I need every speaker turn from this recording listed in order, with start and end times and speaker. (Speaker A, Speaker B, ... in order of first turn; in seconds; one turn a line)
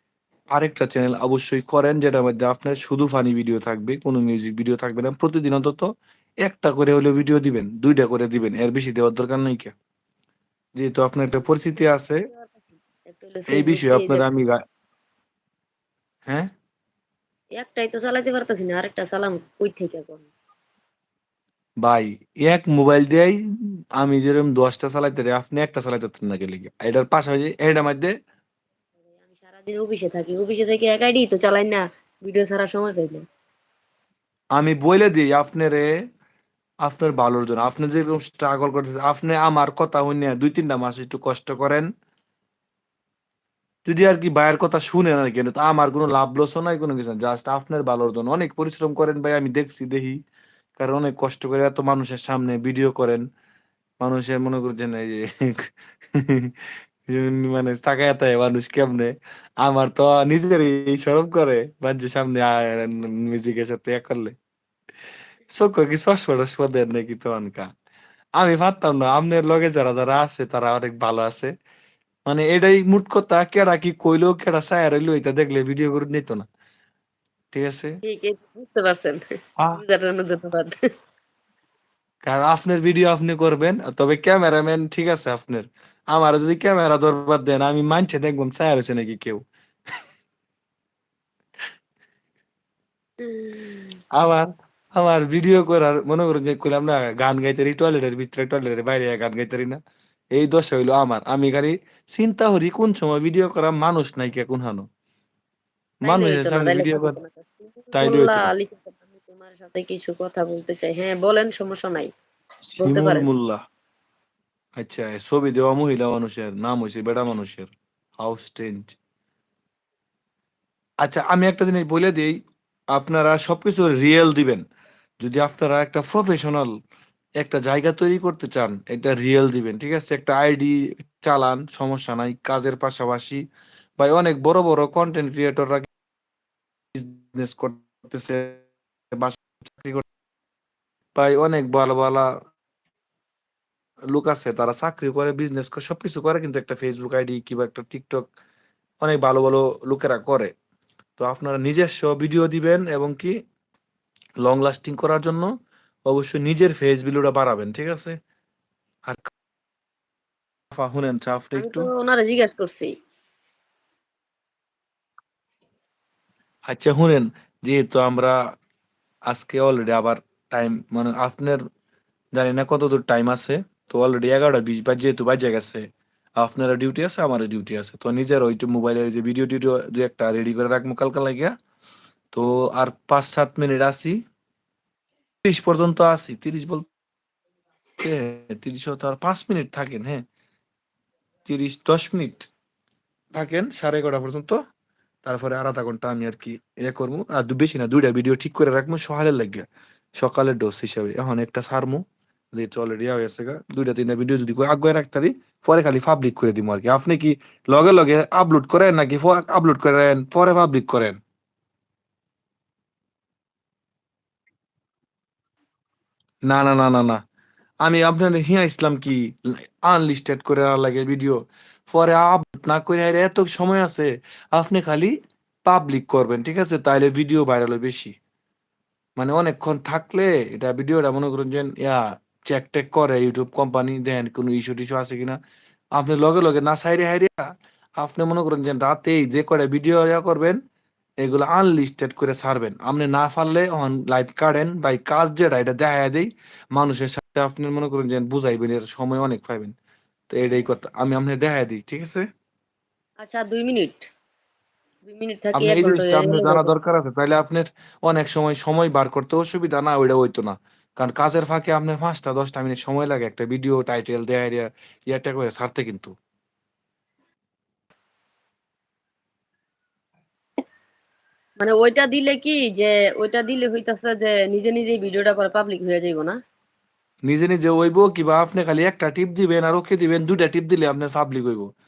Speaker A: 0.6-5.9
Speaker A: 6.4-9.7
Speaker A: 10.8-12.3
Speaker B: 12.3-14.2
Speaker A: 13.5-14.6
Speaker B: 17.6-20.3
Speaker A: 21.8-23.4
Speaker A: 23.9-28.1
Speaker B: 29.3-33.2
Speaker A: 34.5-35.9
Speaker A: 36.8-41.9
Speaker A: 43.9-50.2
Speaker A: 50.8-53.2
Speaker A: 54.0-64.3
Speaker A: 65.5-67.7
Speaker A: 68.4-71.5
Speaker A: 72.3-76.5
Speaker A: 77.5-78.0
Speaker B: 78.0-80.7
Speaker A: 82.2-89.4
Speaker B: 93.2-94.0
Speaker A: 94.1-99.8
Speaker A: 100.3-104.8
Speaker A: 106.0-107.2
Speaker B: 106.0-112.1
Speaker A: 107.9-108.5
Speaker A: 112.7-113.6
Speaker B: 112.8-113.2
Speaker A: 114.8-119.0
Speaker A: 121.0-122.3
Speaker A: 122.9-124.6
Speaker A: 125.2-126.7
Speaker A: 127.4-133.4
Speaker A: 134.0-135.9
Speaker A: 136.9-138.6
Speaker A: 139.1-140.0
Speaker A: 141.1-142.3
Speaker A: 144.1-148.2
Speaker A: 149.0-150.5
Speaker A: 151.2-153.3
Speaker A: 154.4-155.5
Speaker A: 156.1-158.2
Speaker A: 160.7-161.9
Speaker B: 161.6-162.9
Speaker A: 166.7-168.4
Speaker A: 169.3-171.6
Speaker A: 172.3-175.8
Speaker A: 176.4-181.5
Speaker A: 182.3-184.2
Speaker A: 185.4-186.8
Speaker A: 188.0-190.2
Speaker A: 191.4-192.5
Speaker A: 193.3-194.6
Speaker A: 195.2-199.6
Speaker A: 200.2-202.0
Speaker A: 202.6-211.2
Speaker A: 216.4-217.2
Speaker A: 217.8-228.1
Speaker A: 229.2-235.4
Speaker A: 235.9-240.6
Speaker A: 241.2-249.7
Speaker A: 250.3-252.2
Speaker B: 253.2-254.1
Speaker B: 255.1-256.7
Speaker A: 255.5-266.1
Speaker B: 271.6-276.4
Speaker A: 277.2-281.7